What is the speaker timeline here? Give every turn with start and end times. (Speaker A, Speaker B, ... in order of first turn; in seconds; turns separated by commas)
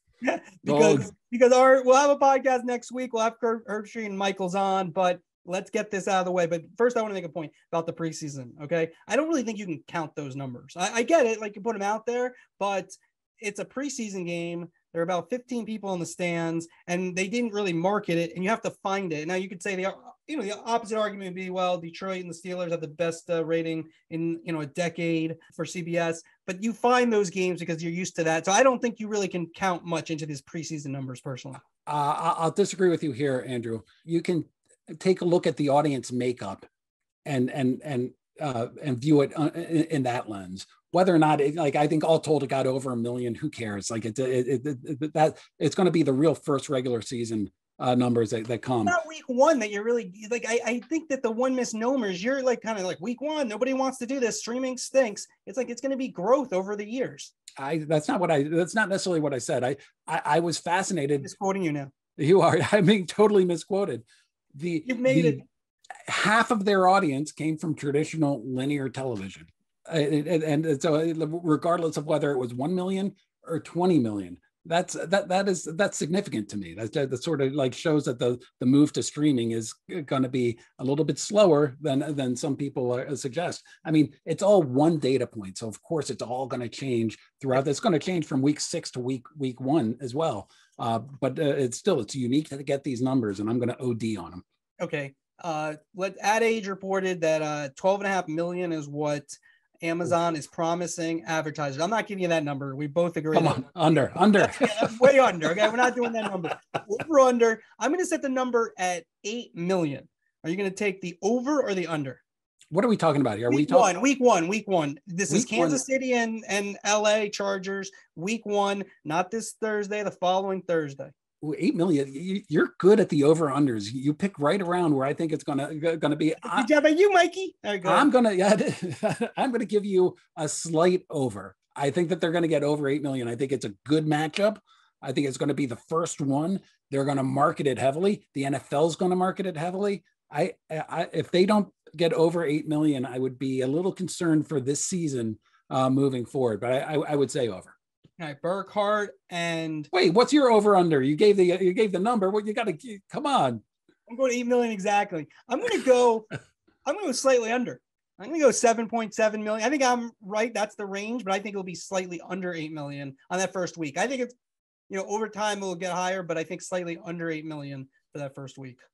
Speaker A: 0.2-31.6, Speaker B: 0.6-1.1, Speaker B: 31.9-36.7, Speaker B: 37.2-49.0, Speaker A: 48.9-57.3, Speaker B: 57.6-61.3, Speaker A: 61.2-61.9, Speaker B: 62.2-64.0, Speaker B: 64.5-65.4, Speaker A: 64.8-65.4, Speaker B: 66.1-94.4, Speaker A: 94.8-103.7, Speaker B: 103.3-105.0, Speaker A: 104.4-112.2, Speaker B: 112.7-113.9, Speaker A: 113.5-121.1, Speaker B: 115.3-115.8, Speaker B: 121.4-126.7, Speaker A: 126.4-128.1, Speaker B: 127.8-147.7, Speaker A: 148.2-149.9, Speaker B: 149.9-153.6, Speaker A: 154.1-156.3, Speaker A: 156.8-164.3, Speaker A: 164.9-168.8